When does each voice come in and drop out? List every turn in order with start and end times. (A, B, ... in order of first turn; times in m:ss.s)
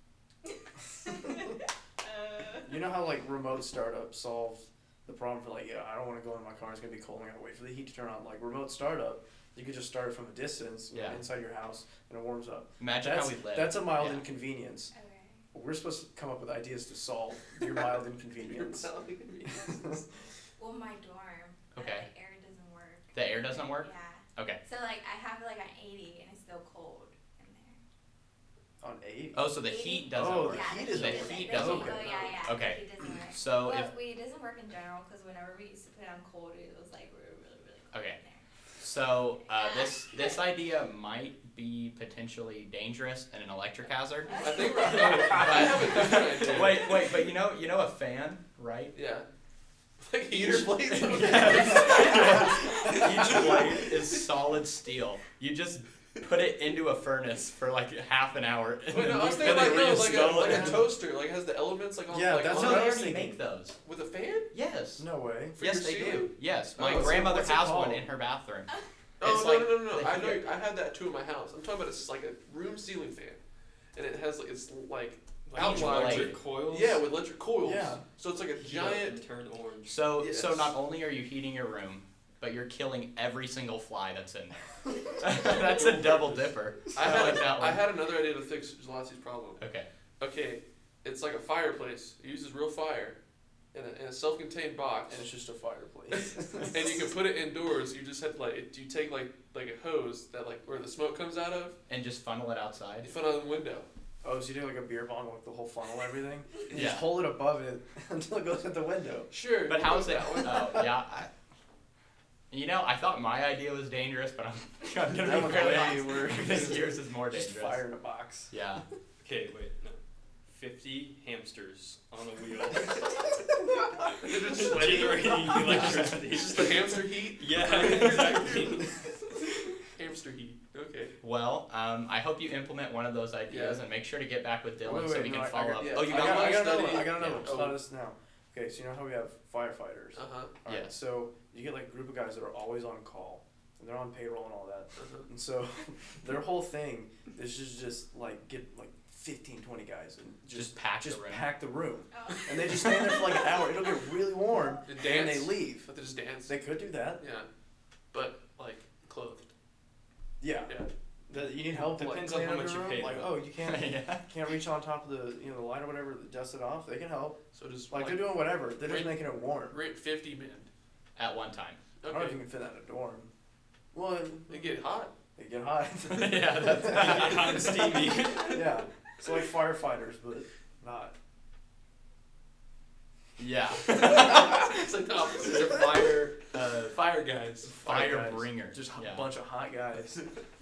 0:01.0-0:02.7 A
0:02.6-0:14.9 B
0:10.9-0:11.2 C
0:12.8-0:14.3 C
0:14.9-0:15.4 A
0:15.5-0:18.9 B
0:18.4-0:20.1 D
0:19.5-0:20.0 B
0:20.6-0:27.8 A
0:21.7-0:22.1 C
0:23.1-0:24.6 C
0:28.8-0:29.4 B
0:29.4-0:33.9 C
0:29.6-0:38.4 A
0:30.1-0:32.4 B
0:37.9-0:38.2 C
0:38.8-0:49.0 C
0:39.6-0:40.4 A
0:44.2-0:45.1 A
0:44.3-0:47.0 D
0:45.2-0:45.4 E
0:48.9-0:49.3 D
0:50.0-0:54.2 D
0:50.3-1:00.9 C
0:51.5-0:52.9 B
0:51.8-0:52.9 A
0:53.0-0:53.9 E
0:58.9-1:03.0 D
0:59.0-1:00.9 B
0:59.7-1:00.7 E
1:02.1-1:03.4 B
1:02.5-1:03.8 C
1:03.8-1:04.5 D
1:04.5-1:10.5 C
1:05.0-1:05.6 B
1:05.6-1:07.2 D
1:06.8-1:08.0 B
1:09.2-1:13.4 D
1:13.9-1:19.2 D
1:15.5-1:17.0 E
1:15.6-1:16.4 C
1:17.6-1:18.0 B
1:18.6-1:20.4 E
1:19.8-1:27.8 C
1:20.2-1:20.7 D
1:25.7-1:26.5 E
1:26.9-1:29.6 D
1:29.6-1:29.9 C
1:30.2-1:33.2 D
1:33.7-1:35.3 D
1:35.1-1:37.0 B
1:36.7-1:41.8 D
1:41.9-1:43.1 C
1:43.0-1:43.9 D
1:44.2-1:49.3 B
1:46.7-1:47.2 C
1:49.3-1:50.9 D
1:49.7-1:51.3 C
1:52.5-1:57.9 C
1:55.1-1:58.5 B
1:58.5-1:58.8 C
1:59.2-2:03.4 E
2:04.1-2:09.8 E
2:04.2-2:09.3 D
2:05.7-2:06.1 C
2:09.8-2:11.2 D
2:11.2-2:17.6 C
2:13.5-2:13.8 D
2:14.8-2:35.9 B
2:15.8-2:17.8 D
2:20.2-2:20.5 D
2:20.7-2:20.9 C
2:25.0-2:25.3 D
2:30.5-2:31.5 C
2:32.1-2:34.1 A
2:34.8-2:36.6 D
2:36.5-2:37.2 B
2:37.2-2:37.5 D
2:38.1-2:39.5 D
2:40.4-2:47.4 B
2:41.6-2:43.4 E
2:43.6-2:44.3 C
2:47.5-2:50.7 D
2:47.9-2:49.8 B
2:51.2-2:51.8 C
2:52.0-2:52.4 D
2:52.1-2:53.3 B
2:53.9-2:54.8 B
2:54.5-2:55.1 D
2:55.4-3:01.2 B
2:56.0-2:57.9 C
2:56.8-2:58.7 E
3:03.4-3:07.0 C
3:03.9-3:06.2 D
3:06.7-3:07.9 D
3:07.8-3:10.3 B
3:07.8-3:09.3 C